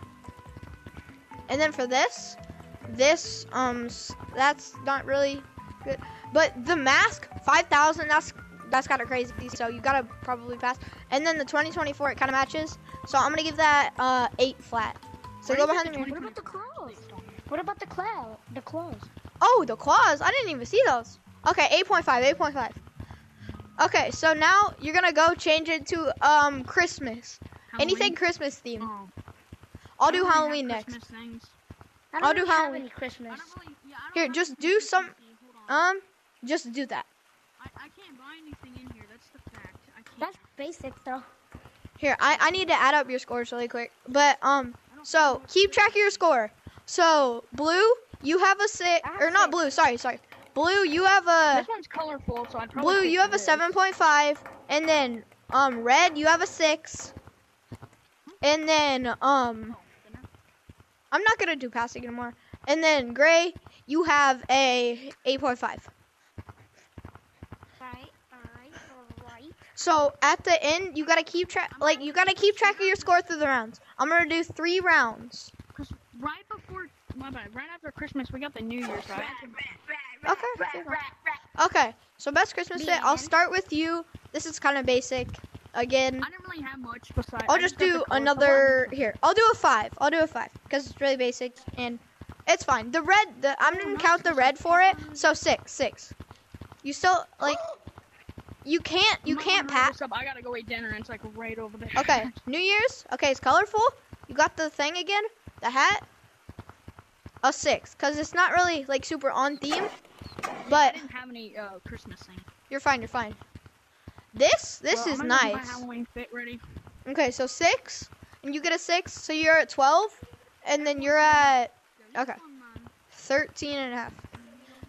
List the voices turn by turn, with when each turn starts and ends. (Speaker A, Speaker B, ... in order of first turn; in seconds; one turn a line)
Speaker A: 1.5-16.1
Speaker B: 15.4-17.5
Speaker C: 16.1-19.1
Speaker A: 19.4-22.8
Speaker A: 23.8-28.9
Speaker B: 27.7-28.2
Speaker B: 28.8-29.1
Speaker A: 30.0-30.9
Speaker B: 30.1-31.6
Speaker C: 32.1-33.5
Speaker A: 32.2-32.9
Speaker B: 33.3-35.9
Speaker A: 34.1-35.1
Speaker A: 35.7-37.1
Speaker B: 37.6-40.5
Speaker C: 40.2-41.3
Speaker A: 42.0-51.7
Speaker B: 42.3-42.8
Speaker B: 44.9-46.3
Speaker C: 49.0-49.6
Speaker B: 51.5-53.8
Speaker A: 52.8-57.1
Speaker A: 58.4-59.8
Speaker B: 59.7-60.3
Speaker A: 61.1-65.9
Speaker C: 67.8-69.6
Speaker A: 69.8-75.5
Speaker B: 71.7-73.2
Speaker B: 75.8-79.6
Speaker C: 79.2-81.4
Speaker A: 80.2-80.9
Speaker A: 81.5-86.3
Speaker C: 82.8-83.3
Speaker B: 86.2-89.1
Speaker A: 87.5-96.2
Speaker B: 93.6-95.4
Speaker A: 96.8-97.6
Speaker A: 98.7-99.9
Speaker B: 99.2-102.3
Speaker A: 102.0-106.0
Speaker A: 107.4-109.9
Speaker B: 110.7-112.5
Speaker A: 110.7-111.0
Speaker A: 112.7-113.4
Speaker A: 114.3-115.8
Speaker B: 114.9-116.6
Speaker A: 117.1-122.4
Speaker B: 120.8-122.9
Speaker A: 123.1-124.2